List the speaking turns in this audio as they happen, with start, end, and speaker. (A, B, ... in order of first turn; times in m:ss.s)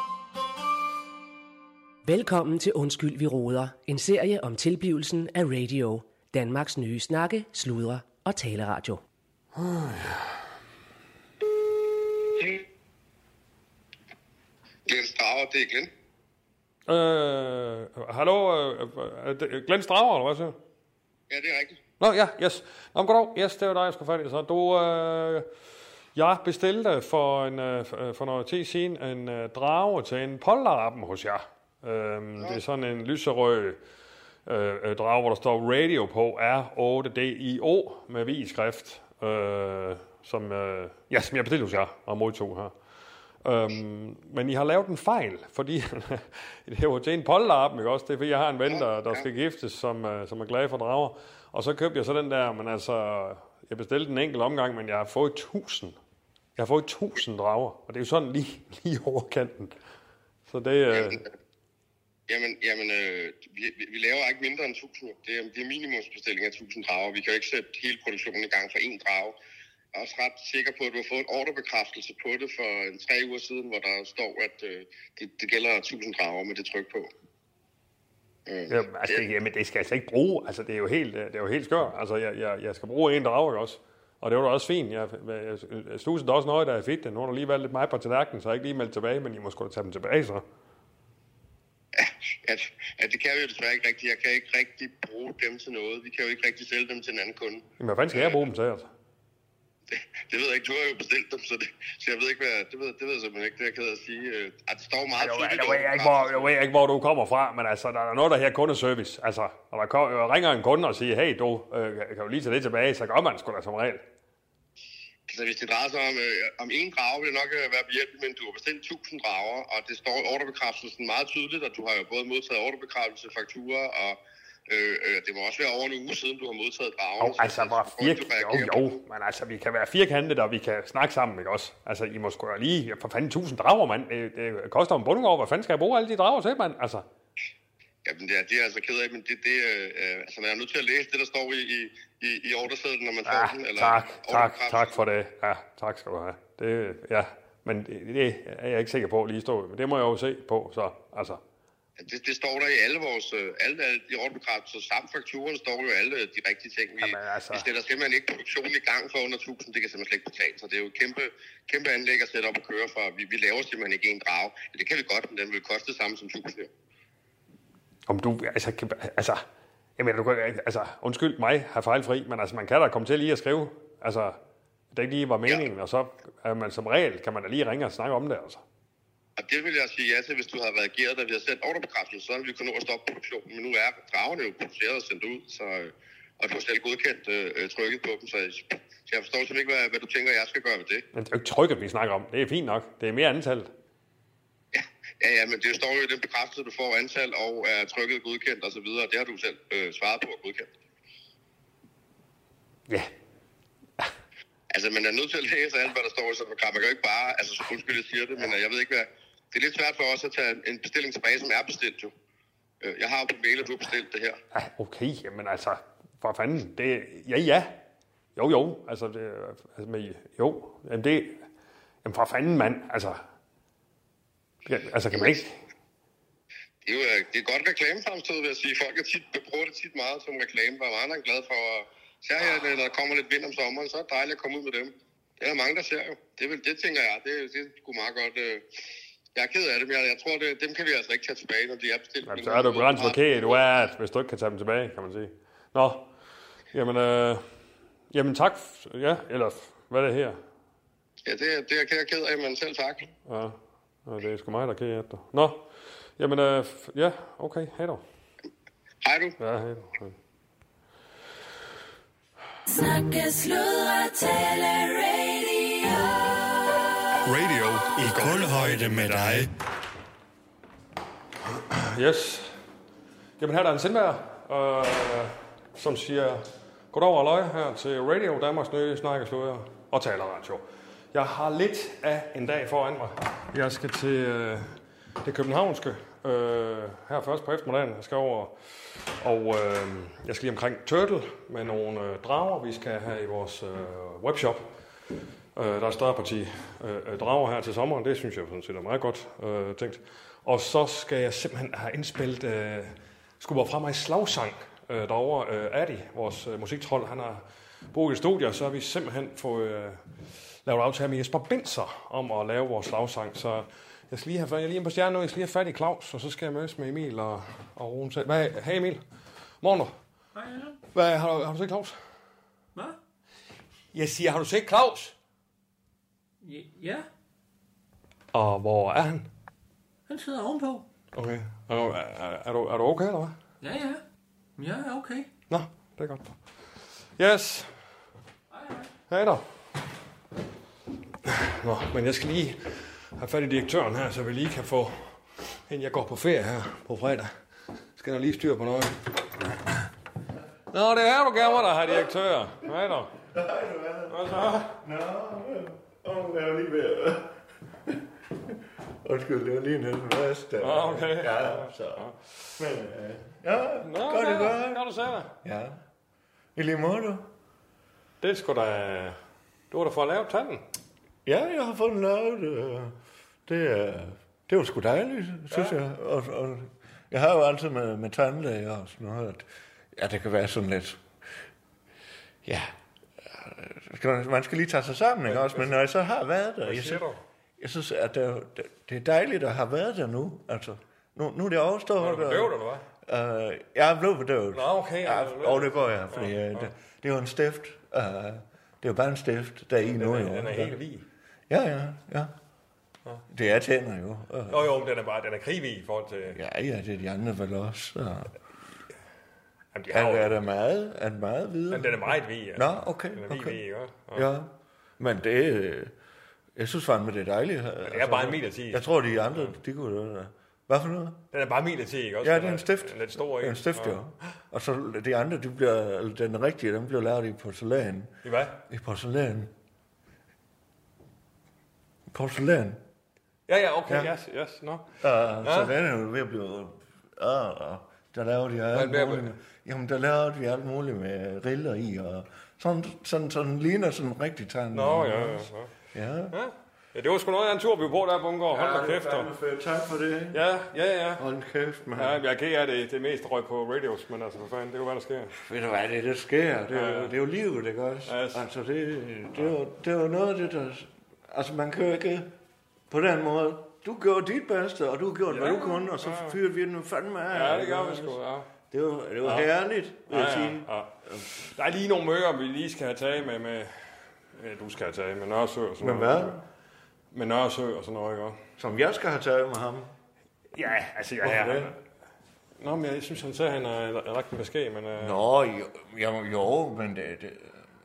0:02.1-0:09.0 A
0:09.6-0:10.3 B
0:14.9-0:15.9 C
0:16.9-0:20.6 B
0:21.3-0:21.8 C
0:22.0-0:25.5 B
0:26.2-0:33.8 B
0:34.5-0:42.8 B
0:43.4-0:56.0 B
0:48.7-0:49.2 C
0:56.6-0:59.8 B
1:00.5-1:01.2 B
1:00.9-1:01.3 C
1:02.3-1:09.4 C
1:09.9-1:17.1 C
1:18.5-1:19.2 C
1:18.7-1:30.4 B
1:32.0-1:38.4 C
1:37.8-1:38.9 B
1:39.9-1:46.5 C
1:45.2-1:54.0 B
1:55.3-2:08.8 C
2:07.2-2:17.0 B
2:18.0-2:25.0 C
2:23.3-2:31.4 B
2:32.0-2:46.7 C
2:37.0-2:37.7 B
2:48.1-2:49.4 B
2:50.0-2:54.4 B
2:54.9-2:58.6 B
2:59.4-3:11.0 C
3:11.1-3:13.7 B
3:14.7-3:20.7 C
3:24.7-3:32.1 C
3:32.8-3:34.4 C
3:34.5-3:37.8 B
3:38.4-3:41.4 B
3:42.0-3:43.2 B
3:44.7-3:45.6 B
3:46.9-3:58.7 C
3:59.4-4:03.6 C
4:02.2-4:06.1 B
4:06.7-4:07.4 B
4:08.1-4:10.4 B
4:11.3-4:13.1 C
4:13.3-4:15.6 B
4:16.2-4:18.0 B
4:19.0-4:19.4 C
4:19.4-4:20.2 B
4:22.7-4:26.5 D
4:27.2-4:29.5 B
4:27.9-4:29.5 E
4:31.4-4:32.6 B
4:33.4-4:54.7 B
4:55.6-5:10.0 B
5:10.7-5:19.0 B
5:19.6-5:20.0 B
5:20.4-5:20.8 F
5:20.9-5:22.0 B
5:23.9-5:25.2 B
5:26.4-5:27.1 F
5:28.3-5:29.3 B
5:30.1-5:30.8 F
5:31.1-5:33.4 B
5:33.6-5:34.0 F
5:34.6-5:35.3 F
5:35.5-5:36.4 B
5:37.2-5:37.7 B
5:38.5-5:38.9 F
5:39.1-5:39.4 B
5:41.2-5:47.3 B
5:48.0-5:49.1 B
5:50.7-5:53.2 B
5:53.3-6:05.8 E
5:54.1-5:54.8 B
6:00.6-6:02.2 B
6:03.8-6:05.3 B
6:06.6-6:07.3 E
6:08.2-6:09.2 B
6:09.7-6:10.6 B
6:11.2-6:21.0 E
6:15.5-6:15.8 B
6:22.4-6:27.0 E
6:25.3-6:25.8 B
6:26.6-6:27.2 B
6:27.6-6:40.8 E
6:32.0-6:32.8 B
6:34.5-6:36.7 B
6:39.9-6:41.0 B
6:41.5-6:42.3 E
6:43.3-6:44.7 E
6:44.5-6:46.4 B
6:46.3-6:48.3 E
6:49.7-6:50.4 B
6:49.9-6:55.9 E
6:51.7-6:54.3 B
6:56.6-7:01.2 E
6:57.8-6:59.6 B
7:01.3-7:04.0 B
7:02.2-7:09.5 E
7:08.2-7:08.6 B
7:12.1-7:12.8 E
7:13.5-7:14.9 B
7:13.9-7:14.1 E
7:15.0-7:26.4 E
7:15.4-7:15.7 B
7:18.7-7:19.4 B
7:24.7-7:25.7 B
7:26.3-7:29.3 B
7:28.5-7:30.4 E
7:30.3-7:31.2 B
7:31.2-7:32.2 E
7:32.0-7:35.4 B
7:35.4-7:42.3 E
7:36.7-7:37.1 B
7:38.1-7:38.4 B
7:42.9-7:48.2 E
7:45.3-7:46.4 B
7:47.3-7:48.5 B
7:48.7-7:51.3 E
7:49.2-7:49.5 B
7:50.1-7:56.4 B
7:55.8-7:56.4 E
7:57.1-7:58.4 B
7:58.6-7:59.9 E
8:00.5-8:01.8 B
8:01.2-8:01.8 E
8:02.6-8:05.2 B
8:05.0-8:07.6 E